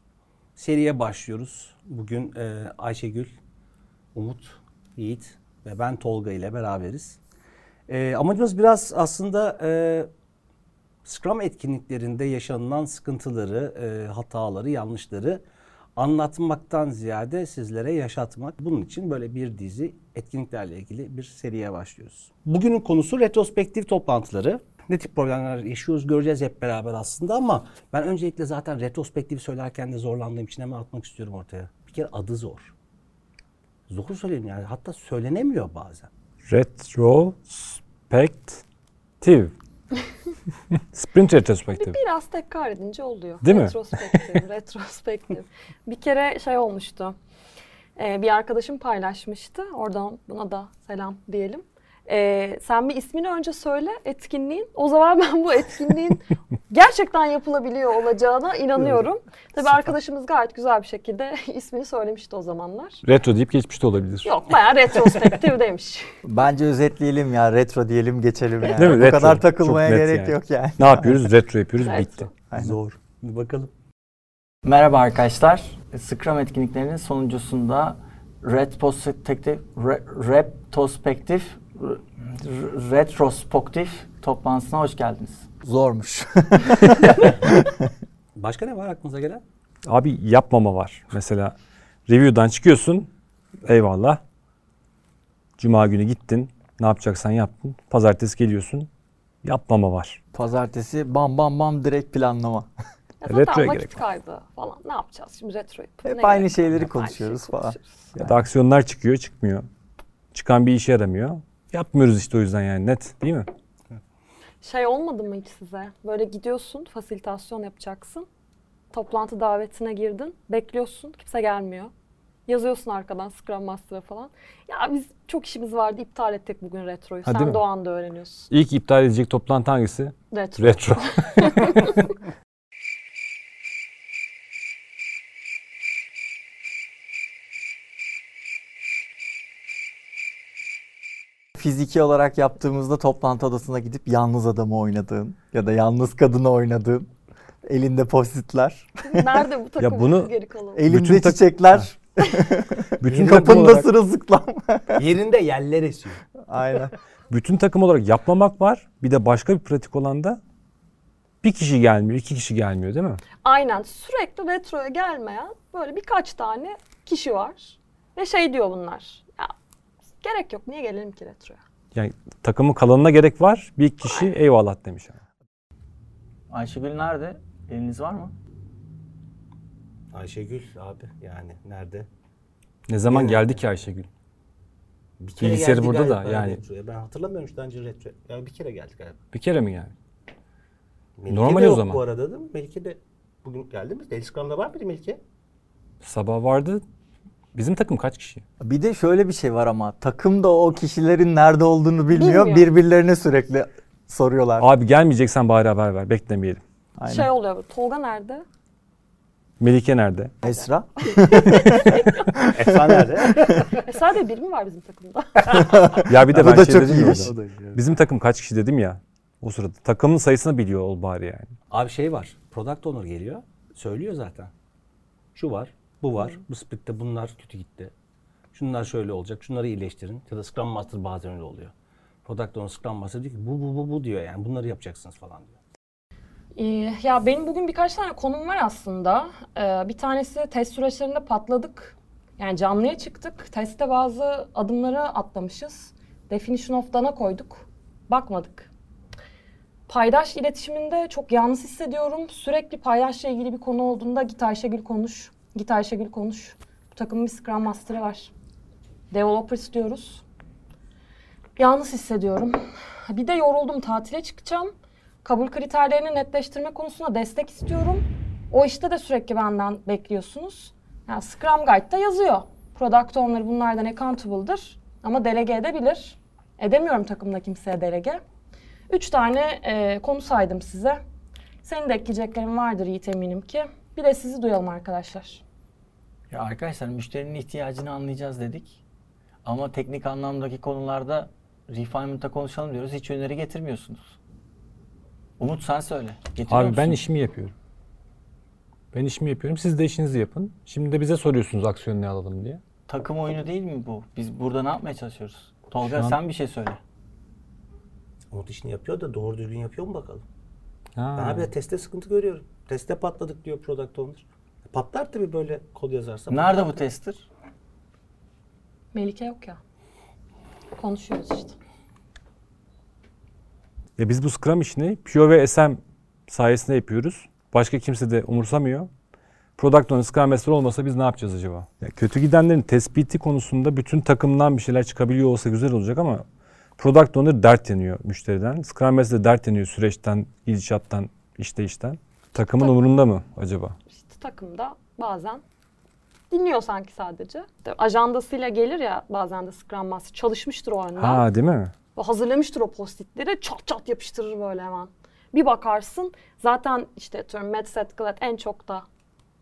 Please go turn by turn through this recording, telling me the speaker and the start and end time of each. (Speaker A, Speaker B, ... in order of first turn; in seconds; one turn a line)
Speaker A: 0.6-3.3
Speaker A: 4.2-7.2
Speaker A: 7.9-10.1
Speaker A: 11.1-15.4
Speaker A: 16.0-32.7
Speaker A: 33.9-36.1
Speaker B: 36.5-38.6
Speaker B: 39.2-39.5
Speaker B: 40.9-42.0
Speaker C: 41.7-47.2
Speaker B: 43.4-44.4
Speaker C: 48.0-63.0
Speaker B: 63.0-64.4
Speaker C: 64.2-66.1
Speaker D: 66.2-71.3
Speaker B: 68.8-72.3
Speaker C: 71.8-72.3
Speaker D: 72.5-72.8
Speaker A: 72.5-73.7
Speaker E: 74.6-85.5
Speaker D: 85.6-87.9
Speaker A: 88.4-89.4
Speaker B: 89.8-91.5
Speaker B: 92.1-93.1
Speaker B: 93.7-94.2
Speaker B: 95.6-98.9
Speaker B: 99.4-100.2
Speaker D: 100.3-102.7
Speaker C: 103.2-108.0
Speaker B: 103.3-104.0
Speaker D: 106.0-108.3
Speaker B: 108.2-109.7
Speaker B: 110.3-113.5
Speaker C: 114.6-118.3
Speaker C: 118.9-121.9
Speaker C: 122.5-128.5
Speaker B: 127.3-127.6
Speaker B: 128.5-132.0
Speaker C: 130.3-132.1
Speaker D: 141.6-147.1
Speaker D: 147.6-149.5
Speaker C: 149.0-150.8
Speaker B: 149.8-150.3
Speaker D: 150.8-155.1
Speaker B: 150.9-151.9
Speaker B: 153.0-153.9
Speaker A: 153.1-153.9
Speaker A: 154.9-156.2
Speaker D: 156.4-156.9
Speaker B: 157.3-160.4
Speaker B: 161.4-163.2
Speaker C: 163.4-169.5
Speaker C: 170.2-171.6
Speaker B: 171.9-175.2
Speaker C: 174.1-174.3
Speaker E: 176.5-178.3
Speaker A: 180.1-182.1
Speaker B: 182.9-184.1
Speaker A: 183.1-183.6
Speaker A: 185.2-189.2
Speaker B: 185.4-186.6
Speaker B: 189.3-189.9
Speaker A: 191.2-195.2
Speaker B: 191.3-192.0
Speaker B: 196.0-196.8
Speaker B: 197.5-198.4
Speaker D: 198.6-204.7
Speaker C: 202.1-202.7
Speaker B: 204.6-206.6
Speaker D: 207.0-207.3
Speaker C: 207.1-208.4
Speaker B: 209.6-210.3
Speaker D: 210.4-213.6
Speaker C: 210.4-212.4
Speaker A: 212.4-213.8
Speaker C: 213.5-216.0
Speaker D: 215.5-217.3
Speaker B: 216.1-221.6
Speaker A: 217.0-217.9
Speaker A: 221.7-224.5
Speaker A: 225.3-227.9
Speaker A: 228.5-231.7
Speaker A: 232.2-235.6
Speaker C: 236.6-248.7
Speaker C: 249.9-258.3
Speaker C: 259.1-260.2
Speaker C: 261.6-264.7
Speaker C: 265.2-278.2
Speaker C: 278.9-281.0
Speaker C: 281.6-285.4
Speaker E: 286.3-288.8
Speaker E: 289.4-294.2
Speaker E: 295.4-297.0
Speaker B: 296.5-297.5
Speaker B: 298.9-302.6
Speaker E: 302.9-306.8
Speaker B: 305.8-306.2
Speaker A: 308.3-310.2
Speaker B: 311.0-311.5
Speaker A: 311.2-316.7
Speaker E: 316.3-317.3
Speaker C: 318.9-319.6
Speaker C: 320.8-321.6
Speaker B: 324.0-328.9
Speaker B: 329.6-336.2
Speaker B: 336.8-343.8
Speaker C: 342.6-342.9
Speaker C: 343.9-345.4
Speaker C: 346.3-351.2
Speaker B: 351.0-351.7
Speaker C: 351.9-358.9